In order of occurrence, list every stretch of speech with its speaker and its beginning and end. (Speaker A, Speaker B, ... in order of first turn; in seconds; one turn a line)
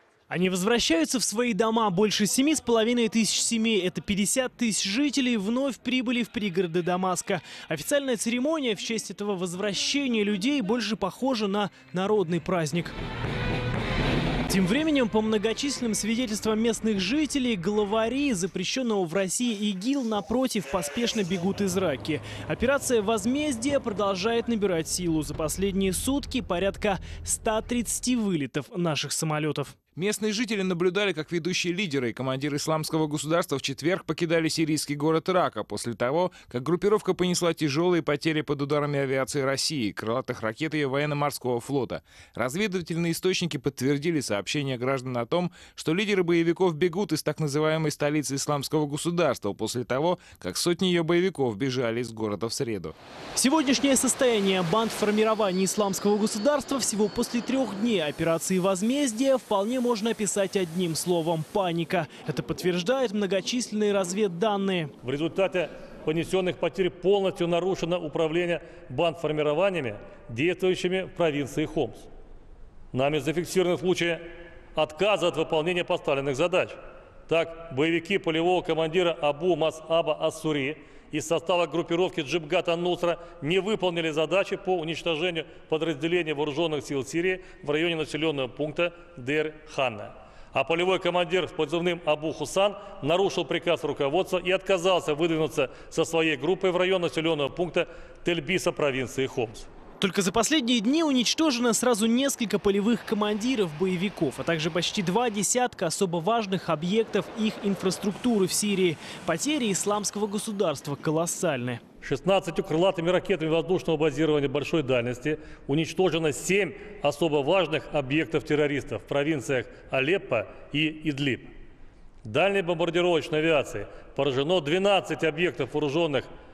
Speaker A: 0.3-12.9
Speaker A: 14.5-29.8
Speaker B: 29.9-52.9
Speaker A: 53.3-64.9
Speaker C: 65.0-72.1
Speaker C: 72.9-99.7
Speaker A: 100.0-111.8
Speaker C: 112.0-121.5
Speaker C: 122.2-126.3